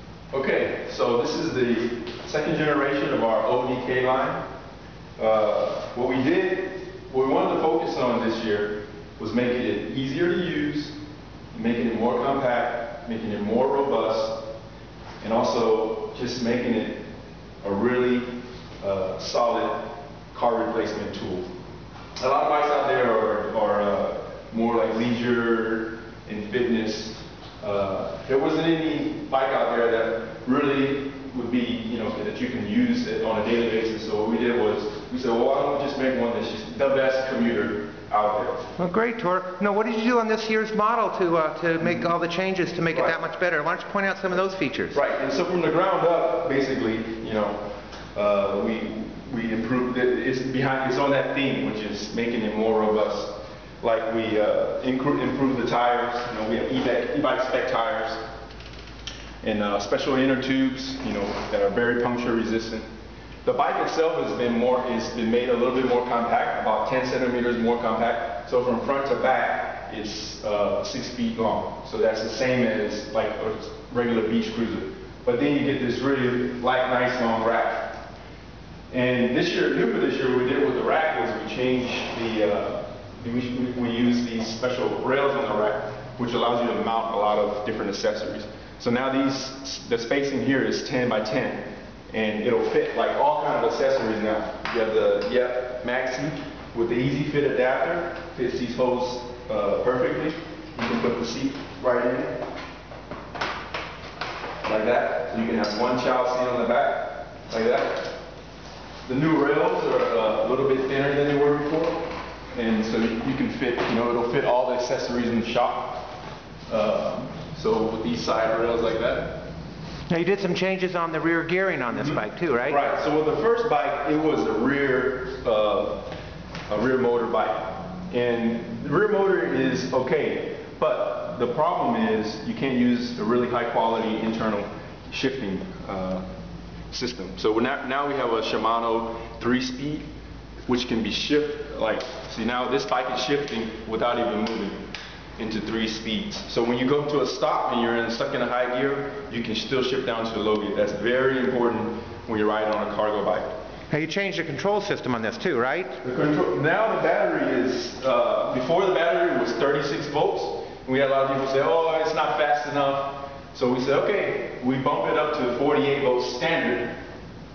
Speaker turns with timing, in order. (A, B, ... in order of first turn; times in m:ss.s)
0:00.3-0:04.4 A
0:05.2-0:11.0 A
0:11.5-0:14.5 A
0:15.2-0:17.1 A
0:17.6-0:19.8 A
0:20.3-0:21.5 A
0:22.2-0:38.7 A
0:38.8-0:45.0 B
0:42.9-0:43.2 A
0:44.9-0:47.6 A
0:48.1-0:58.2 A
0:59.4-1:02.9 A
1:03.4-1:18.0 A
1:18.9-1:42.4 A
1:44.6-1:48.1 A
1:49.0-1:56.1 A
1:56.7-1:59.4 A
2:00.1-2:02.8 B
2:01.9-2:06.1 A
2:06.7-2:16.2 A
2:16.9-2:20.1 A
2:20.7-2:24.8 A
2:25.4-2:33.5 A
2:33.9-2:36.0 B
2:36.0-2:47.0 A